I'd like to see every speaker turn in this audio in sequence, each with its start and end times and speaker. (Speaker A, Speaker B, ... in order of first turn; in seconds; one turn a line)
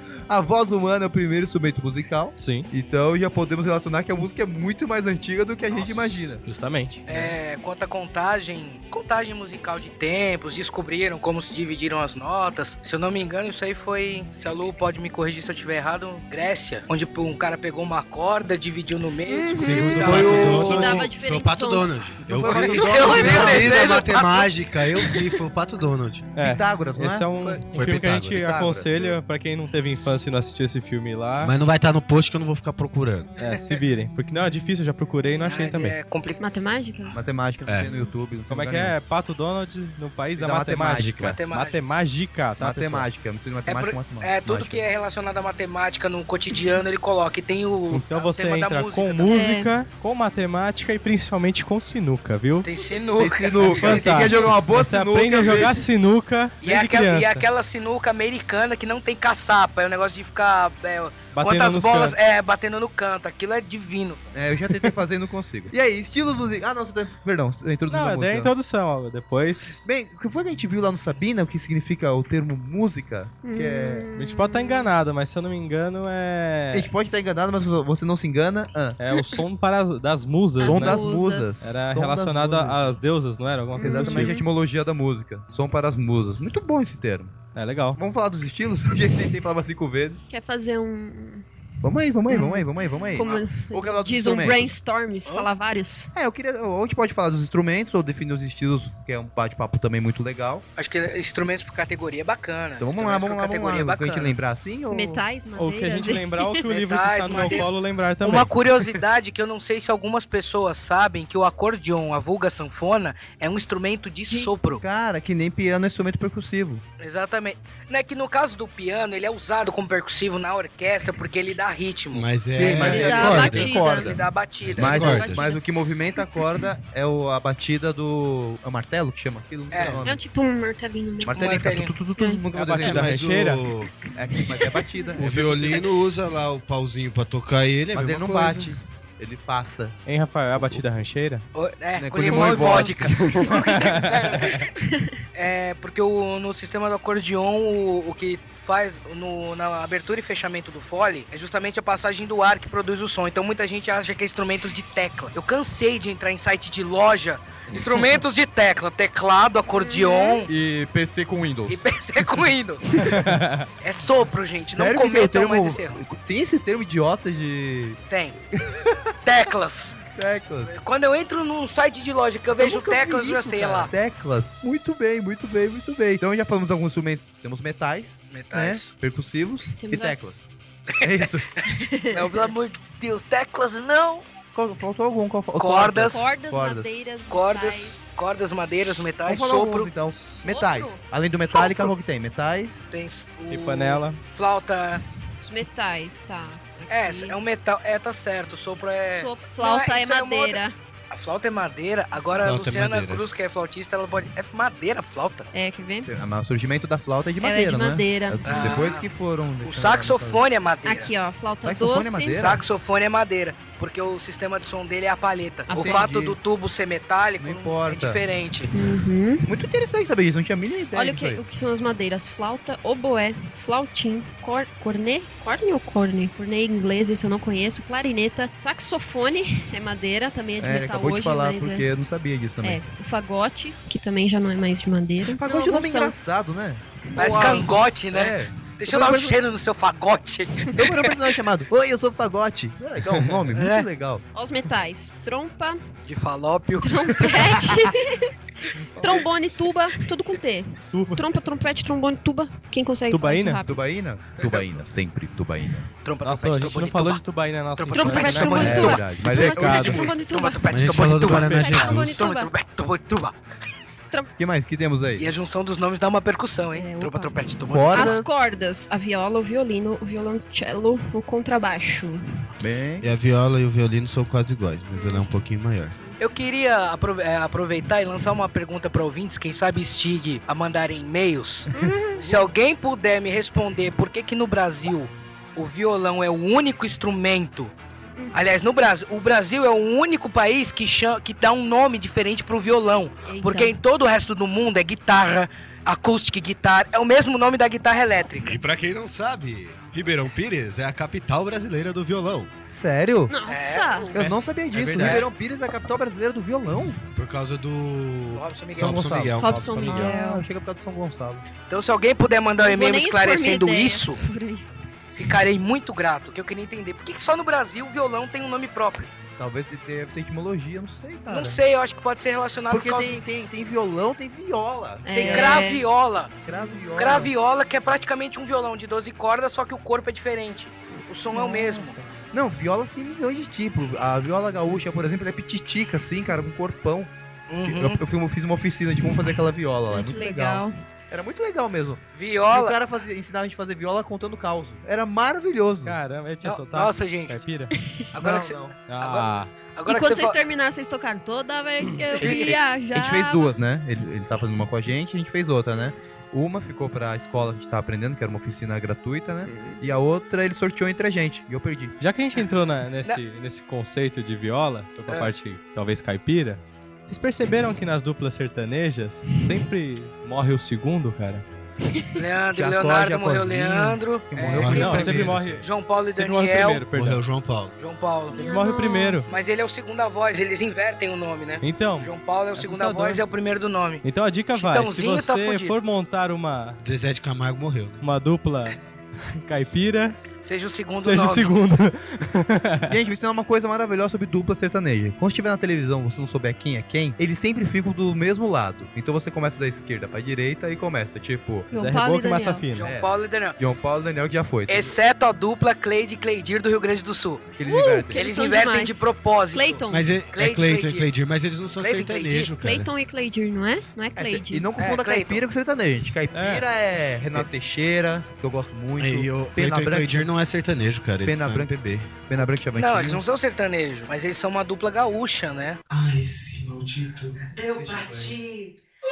Speaker A: 0.3-6.4
Speaker B: 2.4-2.7
Speaker B: 6.4-7.3
Speaker C: 7.1-21.0
Speaker D: 19.3-22.0
Speaker E: 19.5-26.3
Speaker A: 20.0-21.1
Speaker A: 22.3-24.0
Speaker C: 22.4-25.2
Speaker B: 26.4-31.5
Speaker A: 26.4-27.3
Speaker E: 27.7-28.4
Speaker A: 28.1-29.1
Speaker E: 31.4-33.3
Speaker B: 33.4-36.0
Speaker C: 35.4-36.4
Speaker D: 36.4-37.2
Speaker A: 37.1-39.0
Speaker D: 37.8-38.1
Speaker B: 38.5-43.1
Speaker A: 40.3-41.4
Speaker C: 41.3-41.8
Speaker A: 42.6-44.8
Speaker C: 43.6-49.4
Speaker B: 47.9-52.7
Speaker D: 49.3-49.7
Speaker C: 52.6-54.5
Speaker A: 53.2-55.9
Speaker B: 53.7-57.4
Speaker C: 56.6-64.3
Speaker B: 61.3-62.2
Speaker A: 64.3-68.5
Speaker B: 67.9-69.9
Speaker A: 69.8-74.1
Speaker D: 73.4-74.9
Speaker B: 73.6-76.9
Speaker A: 76.7-79.0
Speaker B: 79.0-81.0
Speaker D: 79.1-79.4
Speaker D: 80.6-81.6
Speaker A: 80.6-83.0
Speaker B: 81.6-84.4
Speaker D: 83.8-84.4
Speaker A: 83.8-87.4
Speaker B: 87.5-88.0
Speaker A: 88.0-90.2
Speaker D: 90.3-91.4
Speaker A: 91.8-94.7
Speaker D: 92.3-96.1
Speaker C: 93.1-93.4
Speaker A: 96.1-100.6
Speaker C: 100.8-104.3
Speaker A: 102.8-105.2
Speaker D: 104.9-106.6
Speaker B: 105.5-108.5
Speaker C: 106.6-107.7
Speaker C: 108.2-114.8
Speaker A: 114.7-116.8
Speaker C: 117.0-125.5
Speaker E: 122.1-123.8
Speaker A: 122.5-130.2
Speaker D: 122.7-124.2
Speaker E: 124.6-125.5
Speaker D: 124.8-125.6
Speaker C: 129.7-130.0
Speaker E: 129.8-130.0
Speaker D: 130.0-131.6
Speaker A: 131.2-133.4
Speaker C: 131.3-131.9
Speaker D: 132.2-132.4
Speaker B: 132.5-133.6
Speaker E: 132.7-133.9
Speaker A: 134.0-135.8
Speaker E: 135.2-138.8
Speaker A: 137.9-140.0
Speaker B: 140.1-141.4
Speaker A: 140.6-140.8
Speaker C: 141.5-144.7
Speaker A: 142.0-143.9
Speaker D: 142.3-143.2
Speaker B: 143.7-144.6
Speaker C: 145.3-160.5
Speaker D: 159.7-160.4
Speaker A: 160.5-161.8
Speaker C: 161.7-163.1
Speaker B: 163.0-163.7
Speaker C: 163.8-166.0
Speaker A: 164.6-168.0
Speaker C: 168.1-168.4
Speaker A: 168.6-169.1
Speaker C: 169.2-170.0
Speaker A: 170.1-170.8
Speaker C: 170.7-173.9
Speaker A: 172.6-180.4
Speaker C: 178.3-178.9
Speaker D: 179.8-180.5
Speaker C: 180.9-184.2
Speaker A: 181.0-181.5
Speaker D: 181.7-182.5
Speaker A: 184.5-186.9
Speaker C: 185.6-186.3
Speaker D: 186.1-188.2
Speaker C: 187.3-189.9
Speaker A: 189.2-192.9
Speaker D: 190.2-191.9
Speaker C: 192.9-195.0
Speaker B: 193.5-194.2
Speaker D: 195.4-197.4
Speaker C: 196.9-205.5
Speaker D: 199.1-200.7
Speaker E: 202.4-203.3
Speaker D: 205.5-206.1
Speaker A: 206.1-210.4
Speaker D: 207.4-208.9
Speaker C: 208.4-209.1
Speaker C: 209.6-211.1
Speaker D: 210.8-212.4
Speaker A: 211.6-212.6
Speaker C: 212.3-218.7
Speaker D: 215.7-216.1
Speaker A: 215.7-216.4
Speaker A: 217.4-218.2
Speaker D: 218.7-219.5
Speaker A: 219.5-221.4
Speaker D: 220.9-231.8
Speaker A: 230.6-232.8
Speaker D: 232.6-236.1
Speaker A: 235.2-239.3
Speaker D: 237.1-237.7
Speaker C: 237.2-241.1
Speaker A: 240.7-244.2
Speaker C: 243.5-243.9
Speaker D: 244.3-245.8
Speaker C: 246.1-247.7
Speaker D: 246.8-248.3
Speaker D: 248.9-253.8
Speaker B: 250.9-251.3
Speaker B: 253.1-253.6
Speaker A: 253.6-255.9
Speaker C: 254.4-254.7
Speaker C: 256.0-257.2
Speaker B: 256.2-260.1
Speaker C: 257.8-259.1
Speaker D: 257.9-260.6
Speaker A: 258.6-260.0
Speaker C: 259.6-263.4
Speaker E: 260.7-262.2
Speaker D: 261.2-262.5
Speaker B: 261.3-261.8
Speaker A: 264.4-265.3
Speaker C: 265.2-268.2
Speaker D: 266.7-267.4
Speaker A: 267.7-268.3
Speaker D: 267.9-272.2
Speaker A: 272.6-273.1
Speaker E: 273.0-275.9
Speaker D: 274.9-275.3
Speaker C: 276.2-287.7
Speaker D: 281.7-282.3
Speaker C: 288.3-298.6
Speaker D: 293.2-293.8
Speaker E: 298.4-302.5
Speaker A: 302.7-303.3
Speaker D: 303.3-304.1
Speaker C: 303.5-304.2
Speaker A: 304.1-307.0
Speaker B: 304.7-305.3
Speaker E: 307.1-310.1
Speaker C: 308.3-309.1
Speaker A: 308.8-311.4
Speaker D: 309.4-310.4
Speaker C: 311.7-314.2
Speaker D: 312.6-314.7
Speaker C: 315.1-319.1
Speaker A: 319.4-321.6
Speaker C: 321.3-323.2
Speaker A: 322.7-325.7
Speaker D: 325.0-325.8
Speaker C: 325.1-326.4
Speaker A: 326.4-327.3
Speaker D: 326.5-327.0
Speaker C: 326.9-332.0
Speaker D: 331.3-331.9
Speaker A: 332.1-337.1
Speaker C: 337.5-338.0
Speaker A: 337.6-346.0
Speaker D: 339.9-340.8
Speaker C: 342.1-342.8
Speaker B: 345.8-347.7
Speaker C: 346.4-347.4
Speaker C: 348.1-350.4
Speaker A: 348.2-348.7
Speaker B: 348.9-349.5
Speaker D: 349.9-353.5
Speaker C: 352.1-352.6
Speaker A: 352.9-361.9
Speaker D: 359.5-359.8
Speaker B: 362.0-371.4
Speaker C: 372.1-376.8
Speaker A: 372.5-375.6
Speaker E: 374.5-375.5
Speaker B: 374.6-377.2
Speaker E: 376.9-377.7
Speaker C: 377.8-378.4
Speaker D: 378.3-379.3
Speaker B: 378.4-379.3
Speaker C: 379.3-385.8
Speaker B: 381.6-383.2
Speaker B: 384.0-386.8
Speaker E: 386.8-388.0
Speaker B: 388.0-390.2
Speaker C: 390.4-391.5
Speaker B: 391.0-392.9
Speaker A: 392.9-401.7
Speaker D: 401.7-402.6
Speaker B: 401.7-402.9
Speaker C: 402.7-403.6
Speaker A: 402.8-404.9
Speaker C: 404.7-407.5
Speaker A: 407.6-408.2
Speaker D: 407.6-410.1
Speaker C: 408.1-409.8
Speaker E: 409.9-412.9
Speaker C: 410.3-411.1
Speaker C: 411.8-412.5
Speaker D: 412.4-414.7
Speaker A: 414.1-420.3
Speaker C: 414.8-415.4
Speaker B: 416.3-416.7
Speaker E: 419.0-422.1
Speaker A: 421.2-423.2
Speaker C: 422.7-425.8
Speaker E: 425.9-428.0
Speaker C: 427.5-428.7
Speaker A: 427.8-428.3